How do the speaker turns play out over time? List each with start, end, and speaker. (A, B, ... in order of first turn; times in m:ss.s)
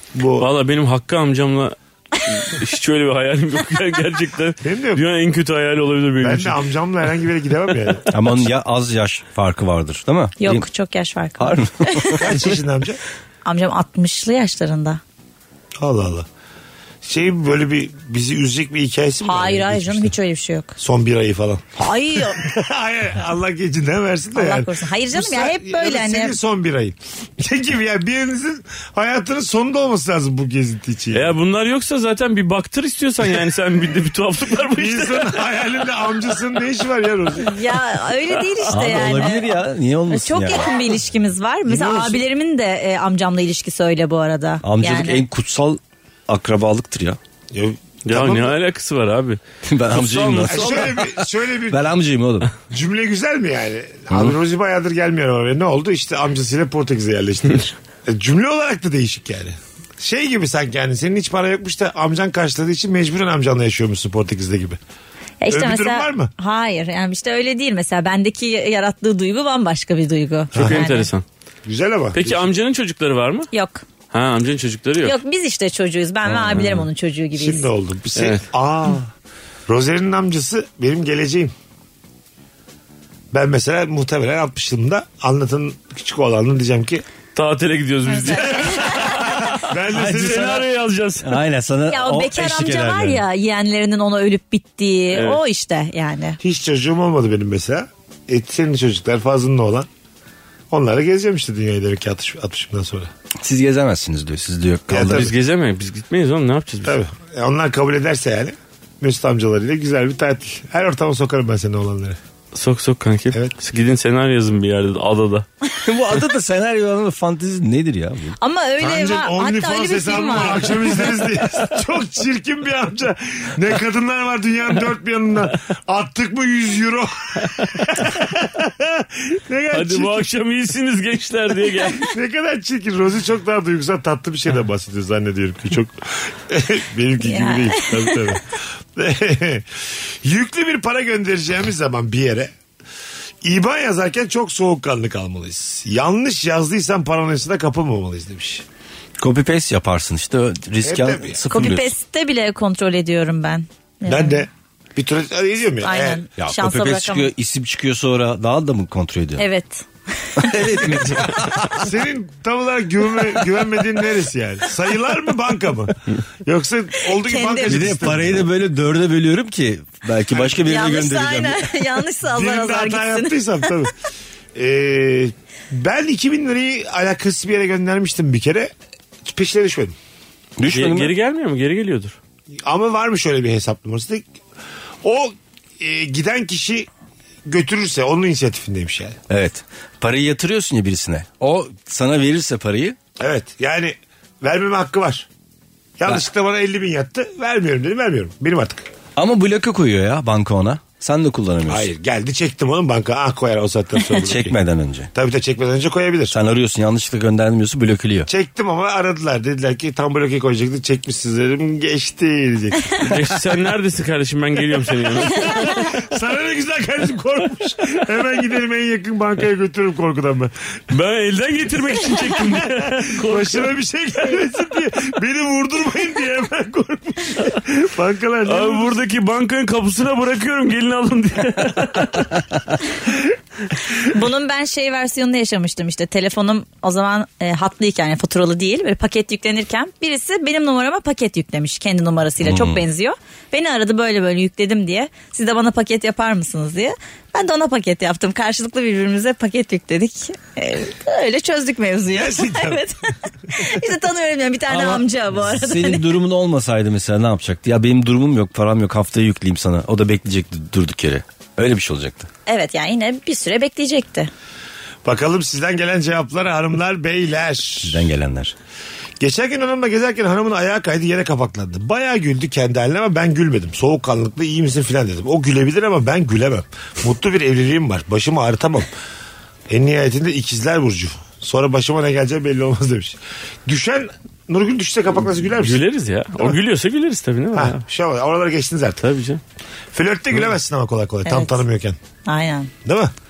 0:00.1-0:00.5 A
0:00.4-0:06.6 B
0:04.6-0:05.0 A
0:06.2-0:08.1 A
0:08.1-0:10.6 C
0:10.4-0:12.2 D
0:11.4-0:12.5 C
0:12.2-0:13.0 A
0:13.4-0:15.0 D
0:15.8-0:16.3 A
0:17.0-0:20.1 A
0:19.2-0:20.8 D
0:20.8-0:31.3 A
0:21.8-0:22.4 D
0:24.4-0:26.4 D
0:31.1-0:35.5 B
0:34.8-0:37.5 A
0:37.4-0:39.6 D
0:38.6-0:40.7 C
0:40.1-0:45.2 D
0:41.6-0:42.2 A
0:44.6-0:47.2 C
0:47.5-0:48.5 A
0:48.1-0:49.4 B
0:49.6-0:52.5 C
0:49.9-0:51.0 B
0:50.5-0:51.8 A
0:52.7-1:04.8 A
0:54.1-0:54.4 C
1:05.4-1:11.1 D
1:05.5-1:06.3 A
1:10.5-1:10.8 A
1:10.5-1:11.2 B
1:11.6-1:12.5 A
1:12.1-1:13.5 B
1:13.5-1:13.8 D
1:14.1-1:15.2 B
1:15.0-1:17.7 D
1:16.3-1:16.7 C
1:17.4-1:19.1 A
1:18.1-1:18.4 B
1:19.7-1:21.5 A
1:23.3-1:27.0 A
1:27.4-1:31.4 B
1:28.1-1:29.1 D
1:28.4-1:30.7 A
1:29.9-1:30.5 C
1:31.2-1:33.2 C
1:31.9-1:36.4 D
1:35.1-1:35.4 B
1:36.4-1:39.9 A
1:40.7-1:43.1 A
1:43.4-1:45.3 C
1:44.9-1:45.3 A
1:45.0-1:47.0 B
1:46.8-1:52.2 A
1:52.5-1:55.4 B
1:55.8-1:58.4 C
1:58.4-2:00.9 D
1:58.8-2:10.3 A
2:09.7-2:12.1 B
2:12.0-2:22.5 A
2:17.2-2:18.2 D
2:23.4-2:28.6 A
2:29.2-2:31.9 C
2:30.8-2:31.4 A
2:31.5-2:34.4 D
2:34.0-2:36.2 A
2:35.8-2:37.3 D
2:36.4-2:39.4 C
2:39.4-2:40.6 D
2:40.4-2:41.8 C
2:41.7-2:48.5 A
2:47.1-2:48.0 D
2:47.6-2:51.7 C
2:50.3-2:50.6 A
2:50.6-2:53.4 D
2:52.2-2:53.9 A
2:54.5-2:58.7 A
2:59.2-2:59.9 A
3:00.6-3:01.1 C
3:00.7-3:02.2 B
3:02.6-3:04.2 A
3:05.0-3:06.9 A
3:07.4-3:09.2 A
3:09.3-3:13.0 C
3:13.2-3:15.3 A
3:16.0-3:18.9 A
3:19.2-3:21.9 C
3:21.7-3:24.6 A
3:24.1-3:25.1 C
3:25.1-3:26.4 A
3:26.3-3:28.3 C
3:28.3-3:33.2 A
3:33.0-3:35.9 B
3:35.0-3:40.5 A
3:40.9-3:43.7 B
3:43.2-3:49.0 A
3:48.4-3:52.4 B
3:54.0-4:16.1 D
4:02.4-4:02.8 C
4:12.1-4:12.8 A
4:14.7-4:22.3 C
4:22.4-4:24.3 D
4:25.0-4:28.0 A
4:27.8-4:28.5 C
4:29.2-4:38.9 A
4:39.7-4:45.8 A
4:45.6-4:47.8 B
4:47.5-4:49.0 A
4:49.0-4:49.4 B
4:49.9-4:52.0 A
4:51.2-4:51.6 D
4:52.2-4:52.7 D
4:52.8-4:53.1 A